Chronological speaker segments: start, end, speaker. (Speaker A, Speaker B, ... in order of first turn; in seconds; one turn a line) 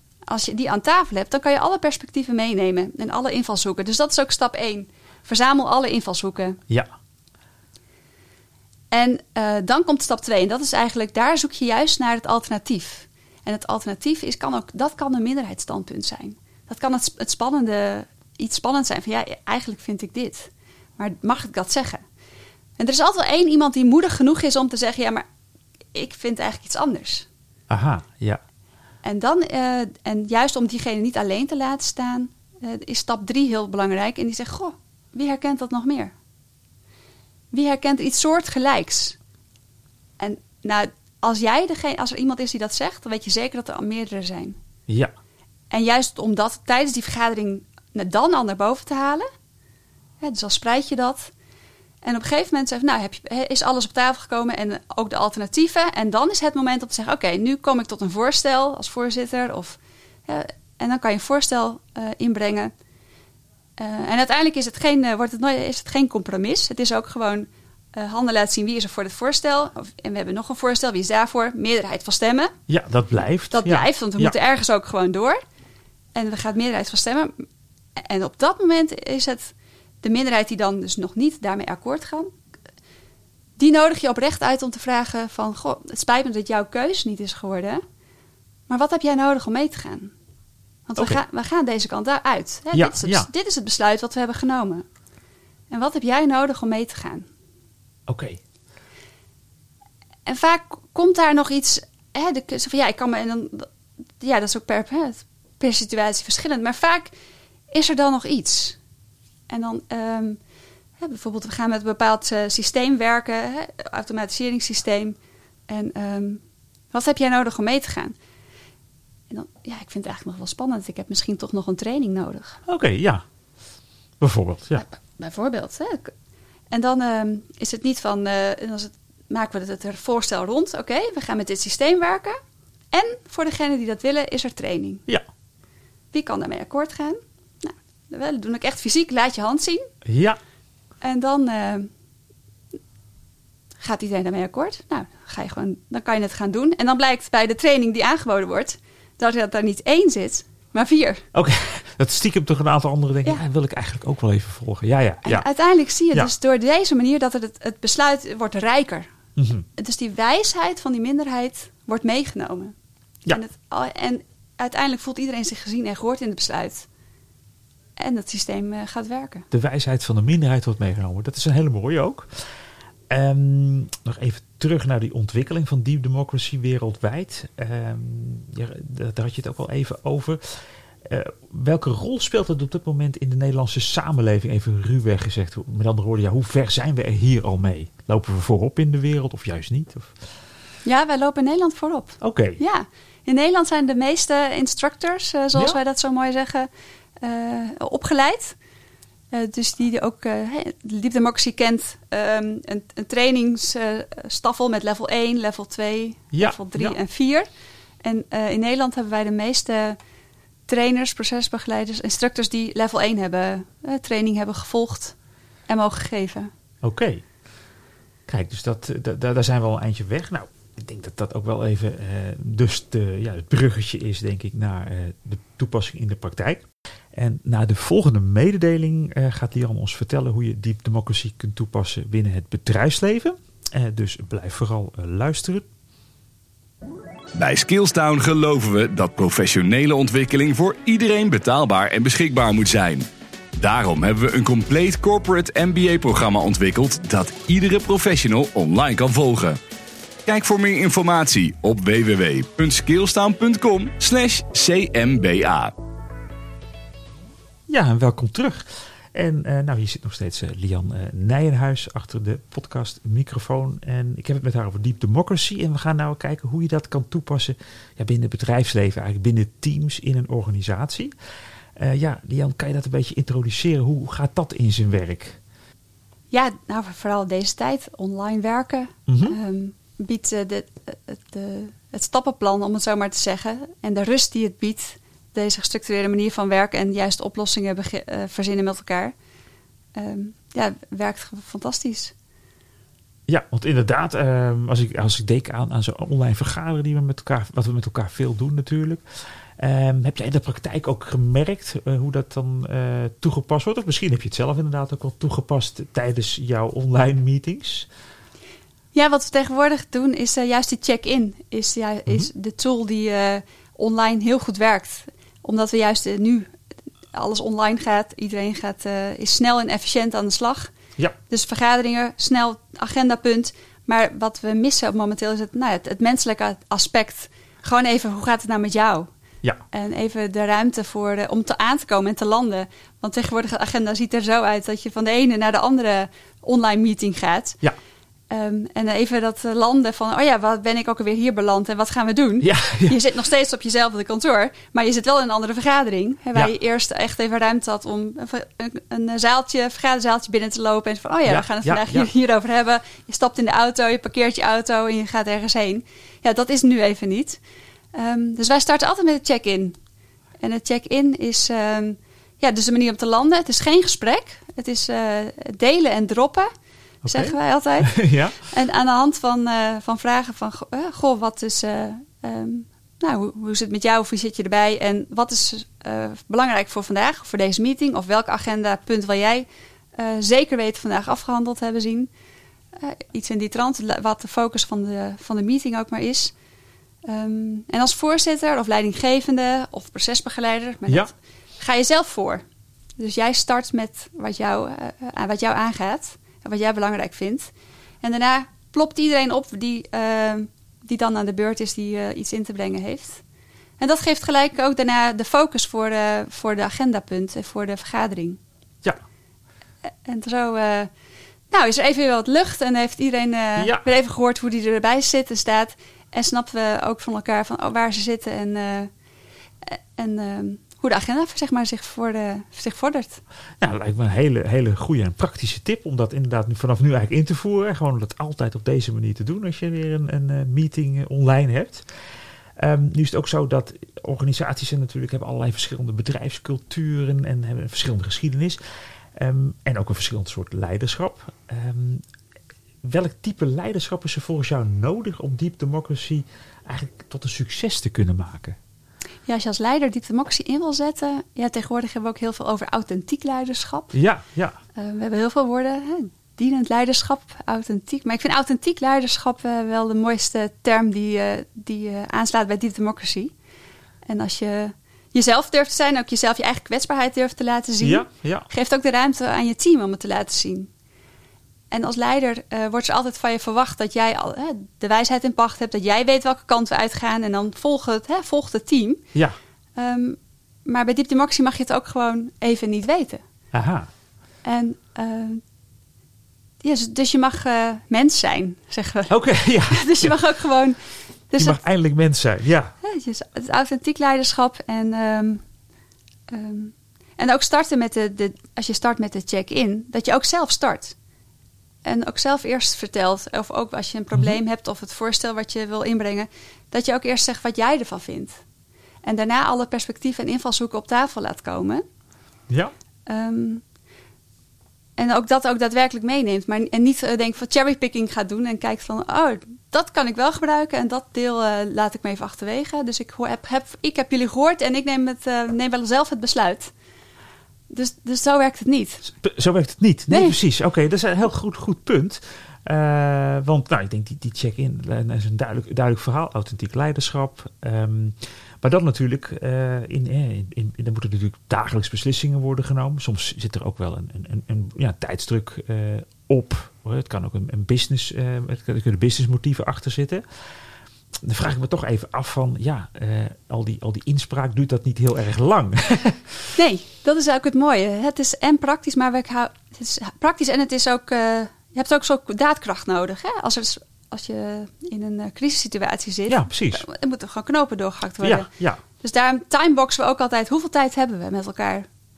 Speaker A: 0.3-6.6
Speaker A: 8.9-22.0
Speaker A: 22.8-25.2
Speaker A: 25.9-27.3
Speaker B: 27.7-28.4
Speaker A: 29.0-36.1
Speaker A: 37.5-39.2
Speaker A: 40.2-44.6
Speaker A: 45.7-49.3
Speaker A: 50.2-51.3
Speaker A: 52.0-62.7
Speaker A: 63.8-72.5
Speaker B: 72.7-74.4
Speaker A: 73.5-75.4
Speaker A: 76.2-77.5
Speaker A: 78.0-82.3
Speaker A: 83.6-87.8
Speaker A: 88.7-90.1
Speaker A: 90.9-94.8
Speaker B: 92.7-93.3
Speaker A: 95.7-97.3
Speaker B: 98.1-98.4
Speaker A: 100.3-103.7
Speaker A: 104.2-107.1
Speaker A: 107.7-108.8
Speaker A: 109.5-110.4
Speaker A: 111.0-115.2
Speaker A: 115.7-116.4
Speaker A: 116.9-118.2
Speaker A: 119.3-122.6
Speaker B: 122.7-123.2
Speaker B: 124.2-124.8
Speaker A: 124.8-126.1
Speaker A: 126.7-132.4
Speaker A: 132.9-135.1
Speaker A: 136.1-139.9
Speaker B: 140.1-140.4
Speaker A: 141.0-141.9
Speaker A: 143.8-151.2
Speaker B: 151.3-155.5
Speaker A: 155.2-159.1
Speaker B: 159.4-159.7
Speaker A: 159.8-162.7
Speaker A: 163.3-166.9
Speaker A: 168.0-169.5
Speaker B: 169.5-172.5
Speaker B: 173.1-190.1
Speaker A: 190.8-196.7
Speaker B: 192.2-192.6
Speaker A: 197.2-198.6
Speaker A: 199.3-207.5
Speaker B: 206.3-207.0
Speaker A: 208.0-210.0
Speaker A: 210.7-215.2
Speaker A: 215.7-216.5
Speaker B: 216.8-217.2
Speaker B: 218.3-235.7
Speaker C: 237.3-249.6
Speaker C: 250.3-255.7
Speaker B: 257.7-271.1
Speaker B: 271.8-275.4
Speaker A: 276.3-289.1
Speaker B: 279.1-279.4
Speaker A: 290.0-292.1
Speaker B: 293.3-299.0
Speaker B: 299.6-307.9
Speaker A: 308.9-316.5
Speaker A: 317.1-320.7
Speaker A: 321.3-329.1
Speaker A: 329.7-337.6
Speaker A: 338.3-357.4
Speaker B: 342.4-343.0
Speaker B: 351.3-352.1
Speaker A: 357.9-359.8
Speaker A: 360.4-366.5
Speaker B: 367.0-368.4
Speaker A: 367.1-382.1
Speaker A: 382.8-386.3
Speaker A: 387.1-392.4
Speaker A: 393.0-397.5
Speaker A: 398.0-403.2
Speaker A: 403.8-408.4
Speaker A: 410.1-410.9
Speaker A: 411.5-418.9
Speaker B: 413.6-413.9
Speaker A: 419.6-423.2
Speaker B: 423.6-431.9
Speaker B: 432.6-438.6
Speaker B: 439.1-442.0
Speaker B: 442.8-448.6
Speaker A: 449.3-454.0
Speaker B: 453.9-454.6
Speaker A: 454.8-463.3
Speaker A: 464.1-470.7
Speaker B: 467.8-468.5
Speaker A: 471.7-479.0
Speaker A: 479.8-483.2
Speaker B: 483.5-483.9
Speaker A: 484.4-485.4
Speaker A: 486.6-489.1
Speaker B: 489.1-490.2
Speaker A: 489.7-490.8
Speaker A: 491.3-491.6
Speaker B: 491.4-492.8
Speaker A: 492.8-495.4
Speaker A: 496.3-501.0
Speaker A: 501.9-508.4
Speaker B: 504.1-504.4
Speaker A: 509.0-511.9
Speaker A: 513.1-513.6
Speaker A: 515.0-526.7
Speaker A: 527.7-529.1
Speaker B: 529.1-550.2
Speaker A: 530.1-530.4
Speaker B: 551.2-556.5
Speaker A: 556.5-571.9
Speaker B: 566.3-566.8
Speaker B: 568.2-568.8